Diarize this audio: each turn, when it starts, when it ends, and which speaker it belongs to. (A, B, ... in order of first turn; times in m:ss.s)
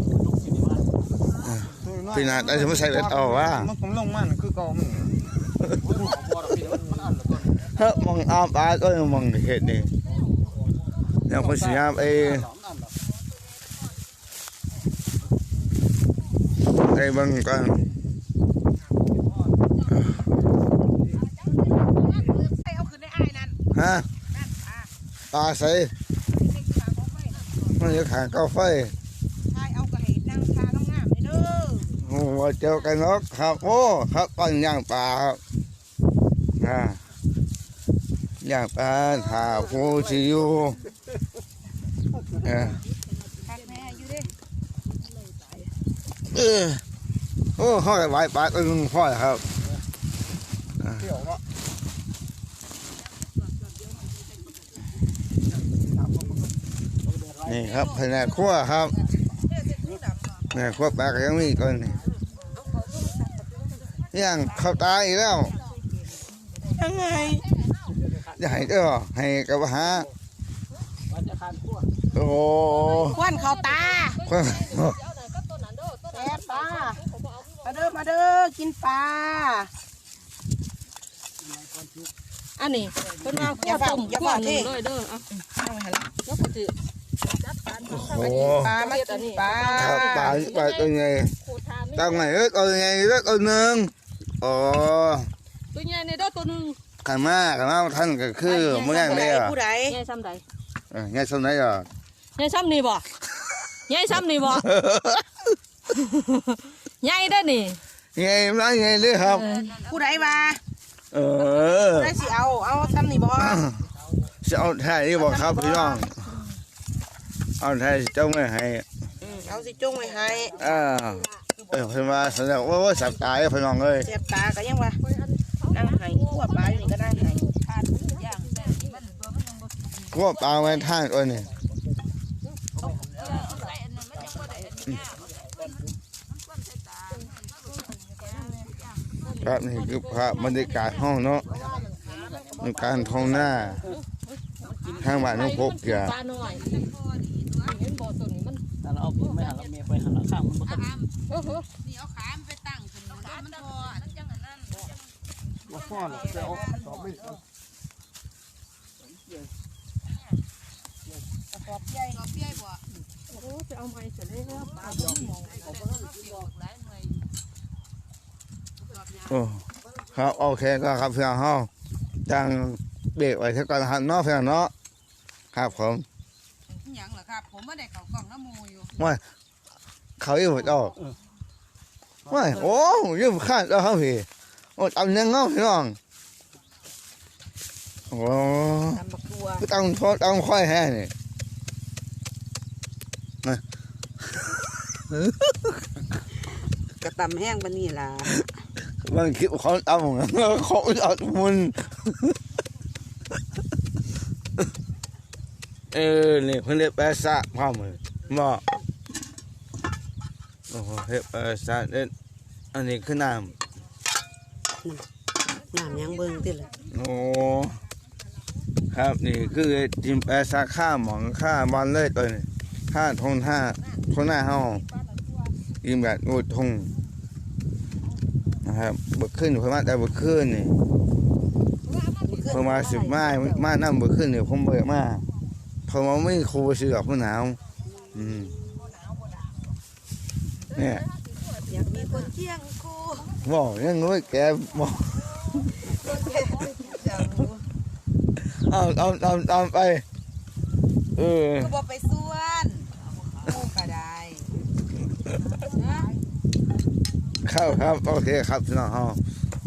0:01.4-0:03.7 A
0:01.9-0:05.2 B
0:07.6-0:09.9 A
0:11.3-0:12.5 A
0:16.8-0:17.9 A
0:22.4-0:23.6 C
0:23.7-0:24.1 A
0:24.3-0:24.9 C
0:25.3-0:25.9 A
0:26.3-0:27.4 C
0:27.8-0:28.9 A
0:29.5-0:32.0 C
0:32.0-0:35.4 A
0:36.6-0:37.0 A
0:38.4-0:40.8 A
0:39.1-0:40.3 D
0:42.4-0:42.8 A
0:43.5-0:44.3 C
0:46.3-0:46.8 A
0:47.6-0:49.4 A
0:50.8-0:51.2 A
0:57.4-0:59.0 A
1:00.5-1:02.0 A
1:04.1-1:05.5 A
1:06.6-1:07.4 C
1:07.0-1:07.4 D
1:08.4-1:10.1 A
1:12.1-1:13.2 A
1:12.7-1:18.0 D
1:13.1-1:14.2 C
1:14.3-1:15.0 A
1:16.1-1:17.0 C
1:17.6-1:19.7 C
1:22.6-1:25.3 D
1:23.3-1:23.6 A
1:23.6-1:24.7 C
1:25.4-1:26.1 C
1:26.3-1:26.7 D
1:27.4-1:30.9 D
1:27.9-1:28.7 A
1:27.9-1:30.4 C
1:29.7-1:31.3 A
1:31.4-1:32.3 D
1:32.0-1:35.3 A
1:35.7-1:36.8 D
1:37.0-1:39.6 A
1:38.9-1:40.0 C
1:39.9-1:40.4 D
1:40.9-1:41.9 A
1:42.4-1:43.0 D
1:44.1-1:44.6 D
1:44.2-1:45.4 A
1:46.0-1:47.8 D
1:48.2-1:49.6 A
1:49.3-1:49.8 D
1:49.8-1:50.6 C
1:51.1-1:52.2 A
1:51.9-1:53.6 C
1:53.4-1:53.8 A
1:54.4-1:56.4 A
1:55.2-1:56.0 C
1:57.6-1:58.8 A
1:59.2-2:00.6 C
2:00.6-2:04.1 A
2:04.0-2:05.0 C
2:05.7-2:07.4 C
2:05.8-2:09.0 D
2:10.1-2:11.5 A
2:12.8-2:13.4 C
2:19.4-2:21.5 A
2:21.6-2:24.0 D
2:22.5-2:23.1 C
2:22.6-2:23.8 A
2:25.0-2:26.2 A
2:25.2-2:26.8 D
2:27.6-2:28.6 D
2:31.3-2:31.7 D
2:33.2-2:34.1 D
2:35.8-2:36.8 C
2:41.5-2:42.3 C
2:43.3-2:45.3 D
2:49.3-2:51.7 A
2:52.3-2:54.7 A
2:55.5-2:56.0 A
2:59.0-2:59.2 A
3:00.2-3:01.0 A
3:02.3-3:06.0 A
3:08.1-3:09.0 A
3:08.9-3:09.6 C
3:09.6-3:11.1 A
3:14.5-3:15.6 A
3:17.0-3:18.5 C
3:18.9-3:22.4 A
3:25.9-3:28.6 A
3:30.7-3:32.1 A
3:32.7-3:33.5 A
3:35.7-3:36.7 C
3:36.9-3:37.8 A
3:38.9-3:44.9 A
3:45.8-3:46.9 A
3:48.6-3:50.8 A
3:52.0-3:52.6 D
3:52.2-3:53.7 C
3:52.5-3:55.3 A
3:55.9-3:57.6 A
3:58.1-3:58.6 A
3:58.1-3:59.0 C
4:00.7-4:02.3 D
4:00.8-4:01.0 A
4:01.7-4:03.3 C
4:03.4-4:05.3 A
4:05.8-4:07.6 C
4:08.4-4:10.0 A
4:11.2-4:11.8 A
4:11.6-4:12.9 C
4:13.4-4:14.5 C
4:15.8-4:16.1 C
4:17.4-4:19.2 A